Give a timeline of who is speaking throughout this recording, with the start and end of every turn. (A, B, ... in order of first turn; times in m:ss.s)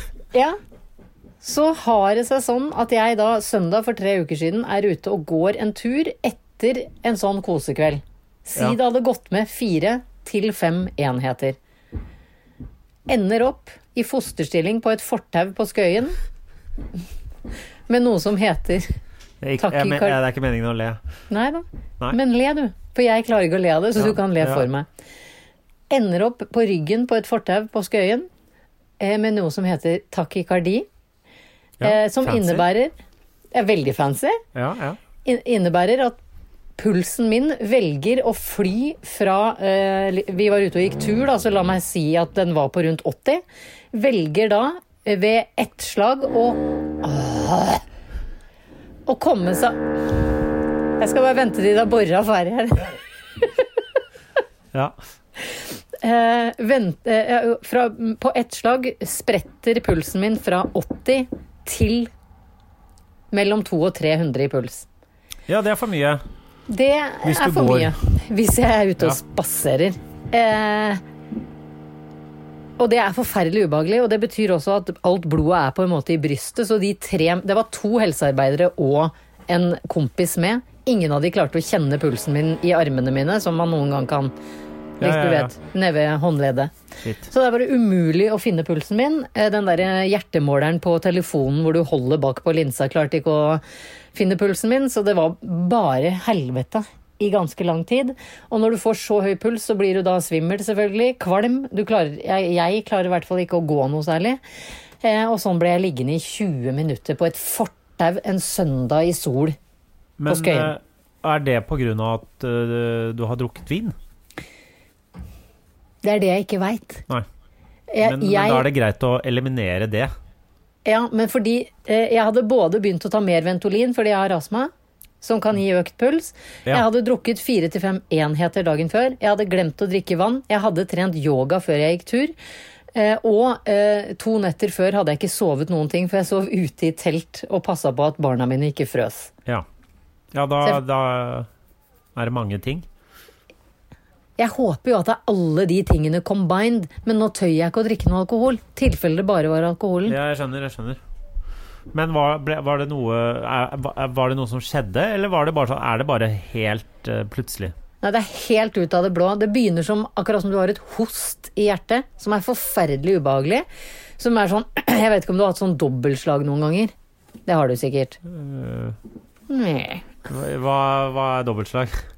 0:01.4-0:11.6 A
0:13.1-0:16.2 A
0:17.9-0:19.0 A
0:19.4-0:21.0 B
0:19.6-0:20.2 A
0:21.3-0:24.9 A
0:24.0-0:24.7 B
0:25.9-0:28.3 A
0:29.0-0:30.9 A
0:31.8-0:32.7 B
0:31.8-0:32.9 A
0:33.5-0:34.4 A
0:34.6-0:35.0 B
0:35.2-0:36.2 A
0:36.8-0:47.8 A
0:49.1-0:49.8 A
0:51.0-0:53.0 A
0:56.0-1:02.1 A
1:03.3-1:04.9 A
1:05.5-1:06.2 B
1:06.7-1:11.0 A
1:07.2-1:08.0 B
1:12.8-1:24.3 A
1:25.0-1:25.5 B
1:25.0-1:26.7 A
1:27.0-1:27.3 B
1:27.3-1:33.6 A
1:34.1-1:44.4 A
1:45.0-1:49.6 A
1:50.2-1:54.0 B
1:50.3-1:50.7 A
1:56.0-1:57.0 A
1:57.9-1:58.7 A
1:58.0-2:00.1 B
2:00.8-2:04.7 A
2:05.2-2:12.3 A
2:12.9-2:19.3 A
2:20.3-2:21.5 B
2:22.2-2:22.9 B
2:24.4-2:30.2 A
2:30.0-2:31.0 B
2:31.9-2:37.7 B
2:38.0-2:43.7 A
2:44.2-2:46.9 A
2:47.5-2:48.2 A
2:48.3-2:49.0 B
2:49.5-2:50.1 A
2:50.3-2:52.0 B